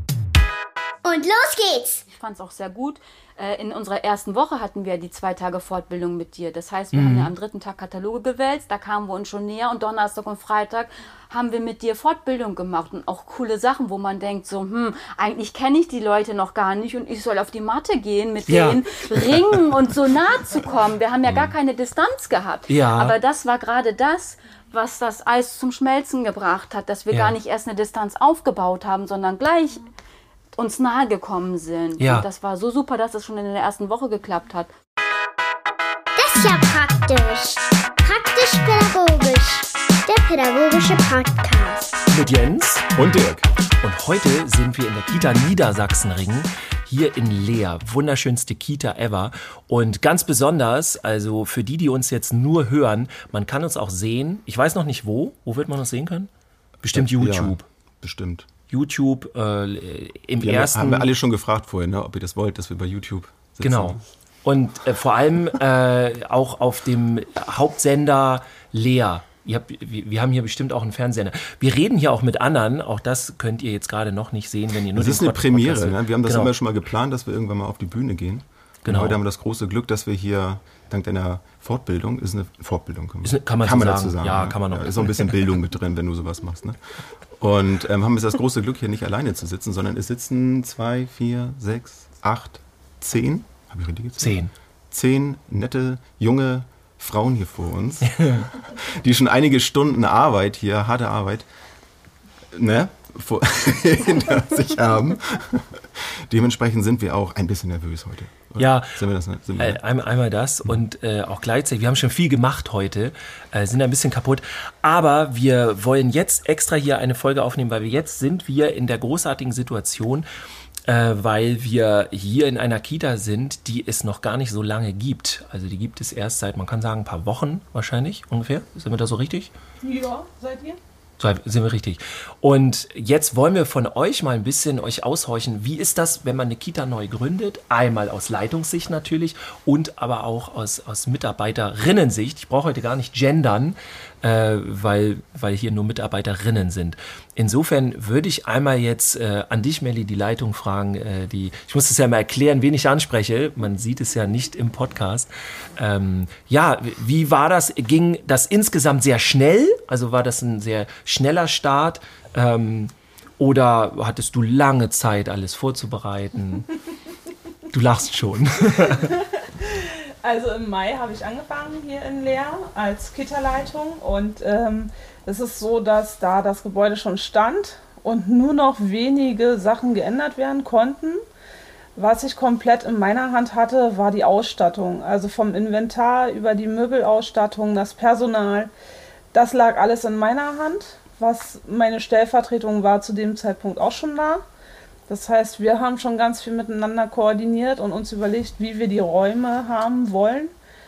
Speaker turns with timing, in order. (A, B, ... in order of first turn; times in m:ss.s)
0:01.0-0:02.0 A
0:02.1-0:29.8 B
0:06.9-0:07.3 C
0:18.5-0:19.6 C
0:21.2-0:21.5 D
0:22.7-0:23.1 C
0:30.5-0:34.7 B
0:32.0-0:32.2 C
0:36.2-0:41.9 A
0:42.1-0:42.9 C
0:42.9-0:43.5 D
0:43.8-0:56.3 C
0:56.8-0:57.6 C
0:56.9-0:58.4 D
0:58.7-1:01.1 C
1:00.4-1:04.0 D
1:03.6-1:16.5 C
1:14.9-1:26.8 D
1:18.8-1:19.2 C
1:23.2-1:25.3 C
1:27.4-1:41.5 D
1:34.2-1:34.5 C
1:38.1-1:38.4 C
1:42.5-1:49.8 D
1:48.6-1:49.0 C
1:49.6-2:00.2 C
2:00.9-2:09.5 C
2:09.8-2:10.8 E
2:11.2-2:46.7 C
2:47.7-2:49.2 C
2:49.1-3:01.2 E
3:02.0-3:08.7 E
3:09.3-3:14.4 E
3:15.1-3:20.5 E